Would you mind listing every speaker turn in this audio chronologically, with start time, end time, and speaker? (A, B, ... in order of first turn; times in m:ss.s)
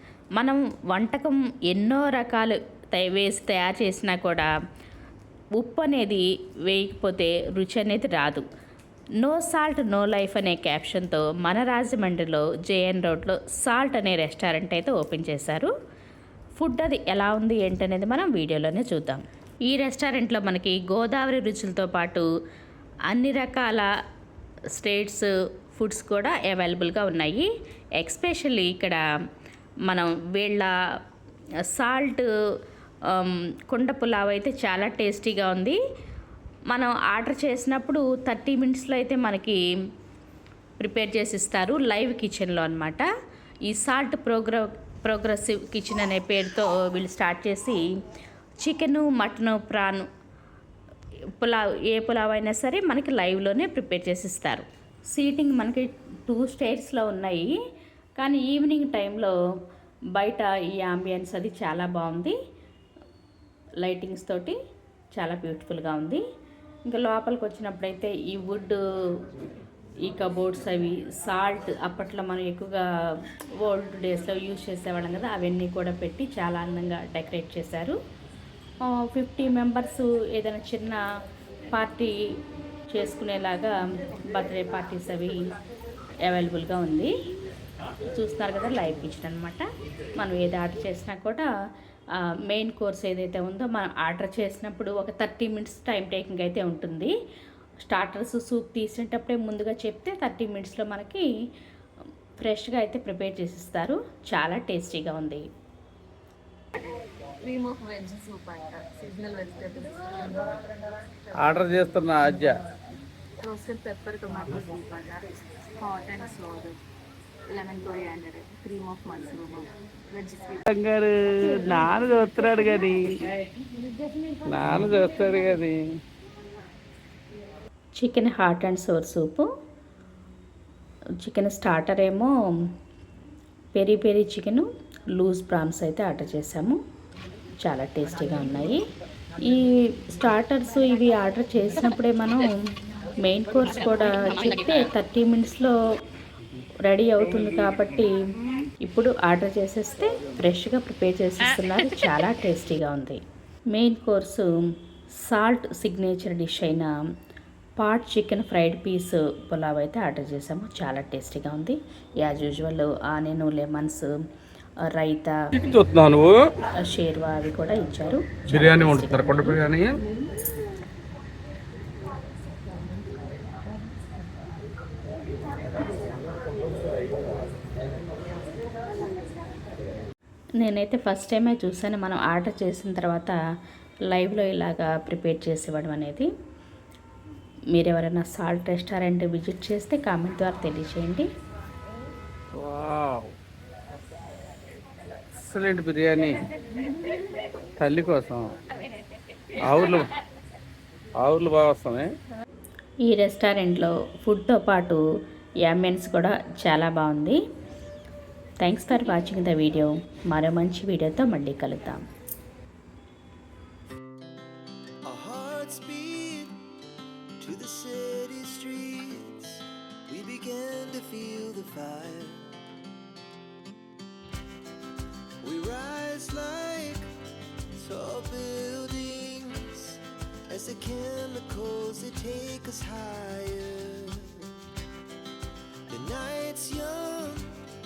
0:00.4-0:04.5 A
0:05.6-0:08.5 A
0:09.2-0:15.7 A
0:16.6-0:22.3 A
0:23.1-0:23.9 A
0:24.8-0:29.0 A
0:29.9-0:30.7 A
0:31.7-0:32.3 A
0:33.1-0:35.8 A
0:36.7-0:39.6 A
0:40.8-0:43.1 A
0:43.7-0:47.9 A
0:48.6-0:50.1 A
0:51.4-0:57.6 A
0:58.2-0:59.4 A
1:00.2-1:02.4 A
1:03.8-1:04.6 A
1:05.2-1:06.2 A
1:06.9-1:08.8 A
1:10.1-1:12.8 A
1:13.6-1:18.0 A
1:18.8-1:21.0 A
1:21.7-1:22.2 A
1:22.9-1:25.4 A
1:26.2-1:27.1 A
1:28.1-1:29.6 A
1:30.2-1:31.5 A
1:32.5-1:37.1 A
1:37.8-1:41.3 A
1:42.4-1:45.4 A
1:47.4-1:50.7 B
1:51.4-1:52.6 C
1:53.4-1:56.8 B
1:57.5-2:00.6 B
2:00.7-2:03.1 C
2:04.5-2:05.8 C
2:08.0-2:09.5 A
2:11.2-2:12.3 A
2:13.8-2:16.8 A
2:17.6-2:18.8 A
2:19.4-2:22.5 A
2:23.2-2:25.8 A
2:26.9-2:28.2 A
2:28.8-2:33.2 A
2:33.7-2:34.5 A
2:35.2-2:36.9 A
2:37.8-2:44.1 A
2:44.9-2:45.4 A
2:45.6-2:46.3 C
2:46.8-2:49.6 A
2:48.5-2:50.0 C
3:00.6-3:03.4 A
3:04.1-3:06.3 A
3:07.7-3:11.3 A
3:12.5-3:13.3 C
3:15.4-3:16.4 C
3:17.8-3:18.5 C
3:19.6-3:20.1 C
3:21.2-3:22.1 C
3:23.1-3:25.0 A
3:25.6-3:27.4 A
3:28.6-3:32.0 A
3:35.0-3:36.6 D
3:37.4-3:42.5 D
3:45.4-3:47.1 D
3:47.8-3:54.5 D
3:55.9-3:57.6 D